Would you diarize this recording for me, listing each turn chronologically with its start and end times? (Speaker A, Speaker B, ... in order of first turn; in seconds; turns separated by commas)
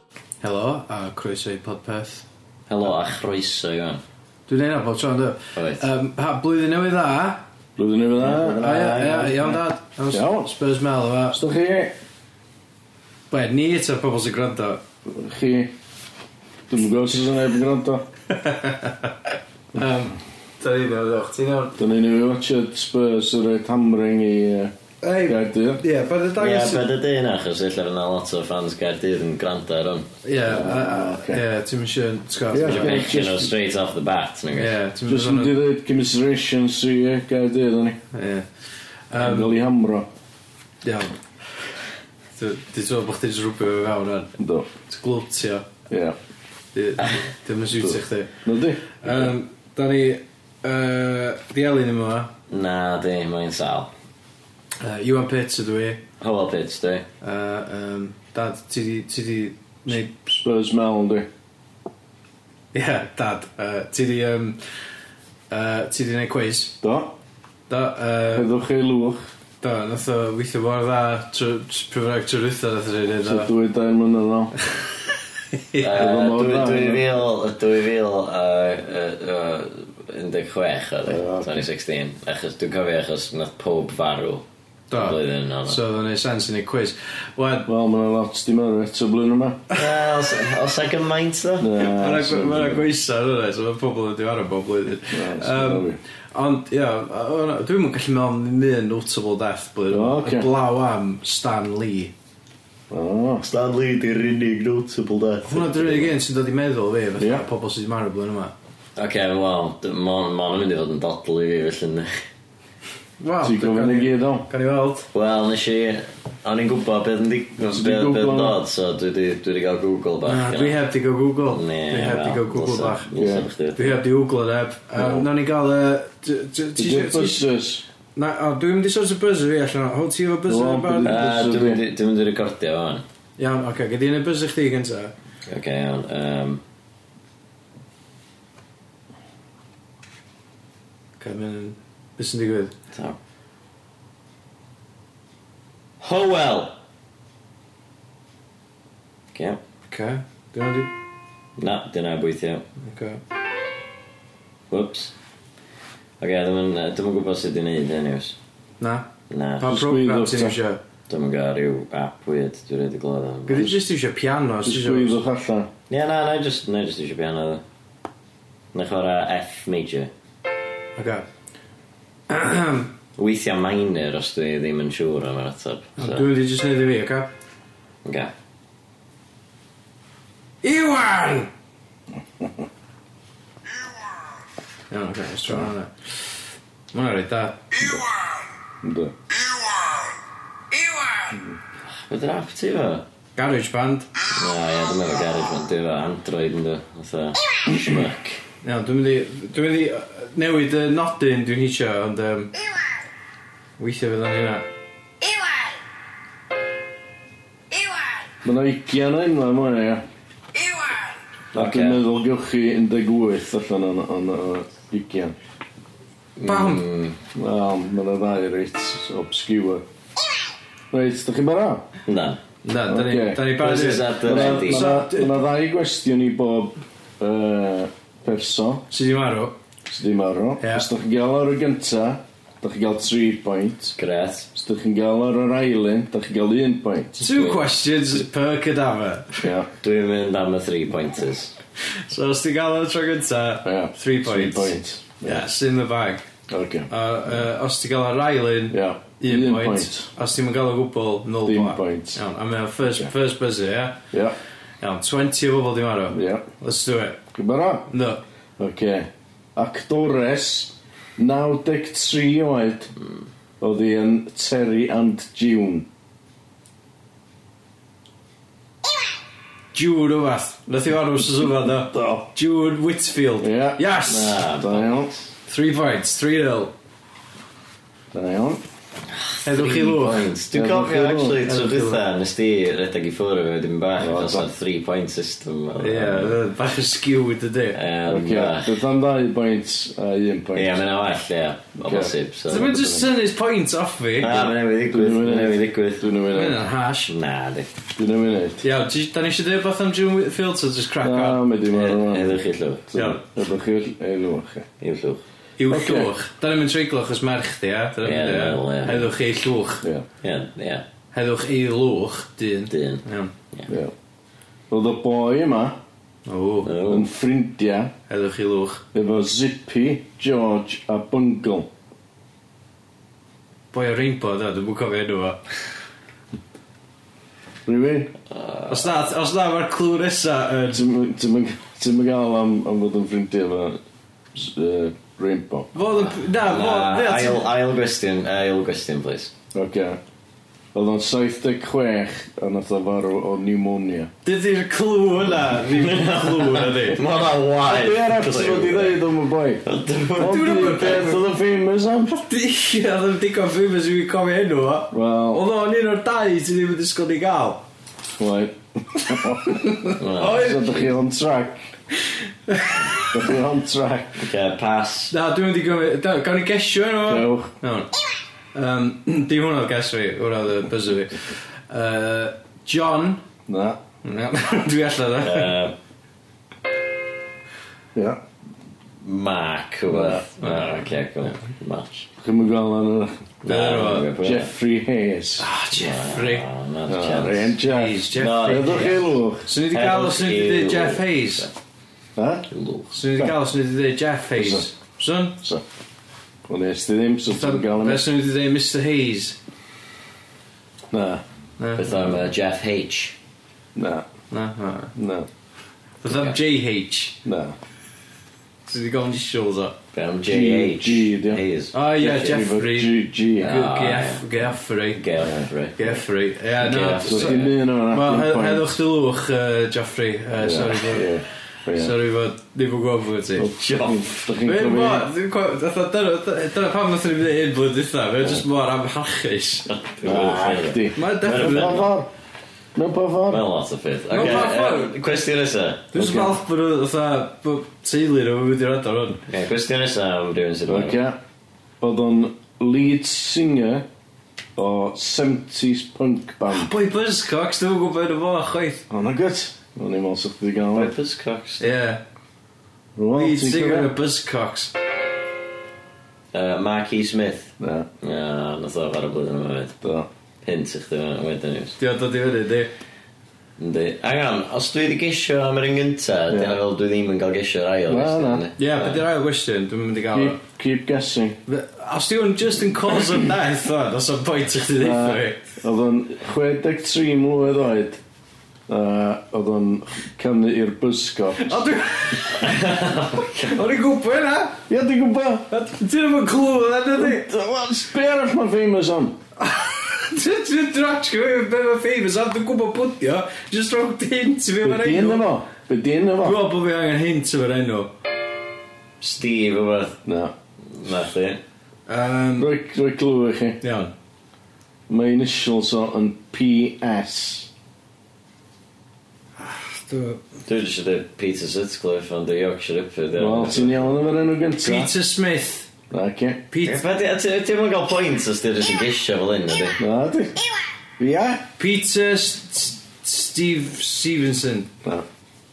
Speaker A: 0.4-2.2, Speaker B: 2.7-4.0, Speaker A: 4.5-7.4, Speaker B: 5.5-5.8, Speaker C: 7.8-9.1, Speaker B: 8.2-9.6, Speaker A: 8.3-11.4, Speaker C: 10.1-10.5, Speaker C: 11.3-11.9, Speaker A: 13.3-14.8, Speaker C: 15.1-15.7, Speaker C: 16.7-18.0, Speaker A: 18.3-21.8, Speaker C: 21.8-24.7, Speaker A: 25.0-26.9, Speaker C: 25.2-25.8, Speaker B: 26.4-30.1, Speaker A: 30.2-33.0, Speaker C: 30.4-31.4, Speaker C: 32.5-33.5, Speaker B: 32.6-34.8, Speaker A: 34.5-35.5, Speaker C: 35.1-38.0, Speaker A: 38.1-38.5, Speaker A: 39.1-39.5, Speaker C: 39.1-40.1, Speaker A: 40.8-41.1, Speaker A: 42.4-44.3, Speaker C: 44.4-44.7, Speaker A: 44.9-45.7, Speaker C: 45.9-46.2, Speaker A: 46.7-48.3, Speaker C: 47.8-49.0, Speaker A: 48.9-52.3, Speaker B: 52.5-53.9, Speaker A: 54.8-56.0, Speaker B: 56.2-57.0, Speaker A: 57.2-60.2, Speaker C: 60.2-61.3, Speaker A: 62.7-64.6, Speaker A: 65.5-66.8, Speaker C: 66.8-67.1, Speaker A: 67.7-68.5, Speaker C: 68.3-69.3, Speaker A: 69.6-73.5, Speaker C: 73.2-74.5, Speaker A: 75.5-75.8, Speaker B: 75.8-85.8, Speaker C: 75.9-77.0, Speaker C: 81.0-81.7, Speaker A: 84.9-87.7, Speaker C: 87.7-89.6, Speaker B: 89.7-91.7, Speaker C: 91.6-92.9, Speaker A: 91.8-102.1, Speaker C: 95.1-96.0, Speaker C: 99.9-100.5, Speaker C: 102.9-103.5, Speaker B: 103.4-106.1, Speaker A: 105.5-108.5, Speaker C: 107.2-107.5, Speaker B: 109.0-112.1, Speaker A: 113.2-115.1, Speaker C: 113.4-114.5, Speaker B: 115.1-120.8, Speaker C: 117.6-118.6, Speaker A: 120.2-123.1, Speaker B: 121.5-124.0, Speaker C: 123.2-123.5, Speaker A: 123.7-127.5, Speaker C: 125.0-125.3, Speaker C: 126.8-127.8, Speaker A: 128.2-131.2, Speaker C: 130.5-131.8, Speaker B: 131.0-133.0, Speaker A: 133.4-135.1, Speaker B: 135.5-136.6, Speaker A: 141.2-142.7, Speaker B: 142.9-143.2, Speaker B: 146.0-146.8, Speaker B: 149.3-149.6, Speaker A: 149.9-150.9, Speaker B: 151.6-152.6, Speaker A: 152.8-153.2, Speaker B: 154.7-155.1, Speaker B: 156.2-158.3, Speaker A: 158.8-159.1, Speaker B: 159.3-159.7, Speaker A: 159.6-160.8, Speaker C: 159.6-160.6, Speaker B: 161.1-163.7, Speaker A: 163.4-165.2, Speaker C: 164.6-165.7, Speaker B: 165.9-167.6, Speaker B: 168.7-170.1, Speaker A: 171.0-171.2, Speaker A: 172.3-172.9, Speaker B: 173.2-176.2, Speaker A: 176.0-177.3, Speaker B: 178.0-178.3, Speaker A: 180.6-181.5, Speaker A: 184.9-185.9, Speaker A: 186.9-187.8, Speaker C: 188.8-189.1, Speaker B: 191.9-193.0, Speaker A: 193.3-194.1, Speaker B: 194.3-198.4, Speaker A: 198.6-202.5, Speaker A: 203.8-204.7, Speaker C: 208.4-210.0, Speaker B: 211.5-212.0, Speaker C: 211.5-215.3, Speaker B: 216.4-217.2, Speaker A: 216.4-216.8, Speaker C: 217.3-219.8, Speaker C: 220.9-221.9, Speaker B: 222.1-222.4, Speaker A: 222.6-225.4, Speaker C: 222.9-223.5, Speaker B: 223.5-224.9, Speaker C: 224.2-228.8, Speaker A: 228.9-229.6, Speaker C: 229.9-233.9, Speaker A: 230.6-230.9, Speaker B: 234.0-234.5, Speaker C: 234.5-237.1, Speaker B: 237.2-237.6, Speaker A: 237.2-239.5, Speaker C: 239.4-239.7, Speaker B: 239.8-241.5, Speaker A: 241.9-246.2, Speaker C: 243.6-245.5, Speaker C: 246.5-246.9, Speaker A: 246.9-254.0, Speaker C: 248.7-250.1, Speaker C: 251.4-252.2, Speaker A: 254.8-257.2, Speaker C: 256.1-256.4, Speaker C: 257.3-257.9, Speaker A: 257.9-258.2, Speaker C: 258.6-262.9, Speaker C: 263.6-265.9, Speaker A: 269.7-274.4, Speaker C: 271.8-272.3, Speaker C: 273.4-275.2, Speaker B: 274.1-274.9, Speaker A: 275.5-276.7, Speaker C: 278.1-278.6, Speaker B: 279.1-286.4, Speaker A: 279.4-280.3, Speaker C: 280.5-281.4, Speaker A: 281.4-282.0, Speaker C: 284.0-284.5, Speaker A: 285.8-287.8, Speaker B: 287.7-288.8, Speaker C: 288.1-290.8, Speaker B: 290.5-292.7, Speaker C: 291.8-293.1, Speaker A: 292.5-294.5, Speaker B: 294.2-296.1, Speaker C: 294.9-296.6, Speaker A: 296.3-297.1, Speaker B: 297.1-297.7, Speaker C: 298.0-298.6, Speaker A: 298.6-301.4, Speaker C: 301.0-304.7, Speaker B: 301.7-303.1, Speaker B: 304.8-305.2, Speaker A: 305.6-309.8, Speaker C: 305.7-306.1, Speaker B: 308.0-309.1, Speaker B: 310.2-310.8, Speaker A: 311.1-313.3, Speaker B: 312.7-313.7, Speaker C: 313.7-313.9, Speaker C: 314.7-315.8, Speaker A: 316.2-316.7, Speaker B: 316.6-317.1, Speaker C: 316.9-317.9, Speaker A: 318.1-318.8, Speaker C: 318.9-321.7, Speaker A: 323.7-325.4, Speaker C: 327.6-328.1, Speaker B: 328.3-329.1, Speaker A: 328.7-330.8, Speaker C: 330.7-333.8, Speaker C: 334.3-335.7, Speaker A: 335.7-337.4, Speaker B: 336.0-339.3, Speaker C: 339.5-340.0, Speaker C: 340.7-344.1, Speaker A: 344.2-347.0, Speaker B: 345.2-349.0, Speaker C: 347.6-349.6, Speaker B: 349.6-350.9, Speaker C: 350.1-352.1, Speaker A: 350.2-351.2, Speaker A: 352.1-357.6, Speaker C: 354.9-355.4, Speaker C: 358.1-361.7, Speaker A: 359.5-360.8, Speaker B: 360.0-360.9, Speaker A: 362.5-363.1, Speaker C: 363.0-364.3, Speaker B: 364.2-365.1, Speaker A: 365.1-367.9, Speaker C: 367.1-367.5, Speaker A: 368.5-373.2, Speaker C: 373.5-373.8, Speaker A: 374.0-375.5, Speaker B: 375.2-375.7, Speaker C: 377.9-378.2, Speaker B: 379.0-382.1, Speaker C: 379.9-380.2, Speaker A: 380.4-381.4, Speaker C: 382.2-383.1, Speaker B: 383.4-384.5, Speaker A: 383.4-384.1, Speaker C: 384.2-385.4, Speaker A: 385.4-386.5, Speaker B: 385.7-387.5, Speaker C: 386.9-389.5, Speaker A: 387.6-391.5, Speaker B: 388.1-389.0, Speaker B: 389.7-391.5, Speaker C: 392.1-392.5, Speaker B: 392.5-392.9, Speaker A: 392.9-395.4, Speaker C: 394.4-394.7, Speaker C: 396.5-398.0, Speaker A: 397.3-399.4, Speaker C: 400.9-401.2, Speaker A: 401.6-401.9, Speaker B: 401.8-403.1, Speaker C: 403.7-404.0, Speaker A: 404.3-404.9, Speaker C: 404.9-405.3, Speaker A: 406.0-407.2, Speaker B: 406.1-406.3, Speaker C: 407.2-407.6, Speaker A: 408.7-409.8, Speaker B: 409.9-411.7, Speaker C: 410.3-411.4, Speaker A: 411.7-415.0, Speaker C: 411.9-413.5, Speaker B: 413.4-416.0, Speaker C: 415.2-415.5, Speaker A: 415.8-421.1, Speaker B: 416.6-417.5, Speaker C: 417.0-418.7, Speaker C: 420.4-421.9, Speaker A: 421.7-423.5, Speaker C: 423.4-425.1, Speaker B: 423.5-424.4, Speaker A: 424.4-429.7, Speaker B: 429.7-431.9, Speaker C: 430.0-432.1, Speaker A: 430.9-431.8, Speaker C: 432.7-433.4, Speaker B: 433.3-435.9, Speaker A: 434.1-434.9, Speaker A: 435.9-439.2, Speaker C: 435.9-436.4, Speaker B: 439.3-440.9, Speaker C: 440.7-441.2, Speaker C: 441.8-443.9, Speaker C: 444.6-446.7, Speaker A: 446.5-448.8, Speaker C: 448.9-450.9, Speaker B: 450.7-451.7, Speaker A: 451.6-452.0, Speaker C: 452.9-453.9, Speaker A: 453.1-454.7, Speaker B: 456.3-459.8, Speaker C: 457.6-457.9, Speaker C: 459.8-460.1, Speaker B: 460.4-461.8, Speaker A: 461.8-462.7, Speaker B: 463.6-469.0, Speaker C: 466.3-466.6, Speaker C: 467.9-468.4, Speaker A: 468.6-470.4, Speaker C: 470.1-471.4, Speaker A: 471.5-475.6, Speaker C: 474.8-478.0, Speaker C: 478.7-481.6, Speaker A: 481.4-482.7, Speaker B: 482.2-483.6, Speaker A: 483.2-484.6, Speaker C: 484.7-485.5, Speaker A: 485.5-487.3, Speaker C: 486.9-489.2, Speaker A: 489.4-495.2, Speaker C: 494.6-496.4, Speaker A: 496.2-497.9, Speaker B: 499.0-500.0, Speaker C: 500.0-500.3, Speaker B: 500.7-501.4, Speaker A: 501.9-502.5, Speaker C: 502.4-503.6, Speaker A: 503.6-503.9, Speaker C: 504.9-507.5, Speaker A: 509.4-510.2, Speaker B: 510.4-513.9, Speaker C: 513.1-514.9, Speaker A: 514.6-515.7, Speaker C: 515.9-516.4, Speaker A: 516.5-516.8, Speaker B: 516.6-519.8, Speaker C: 519.8-520.4, Speaker C: 521.0-521.5, Speaker A: 521.6-524.7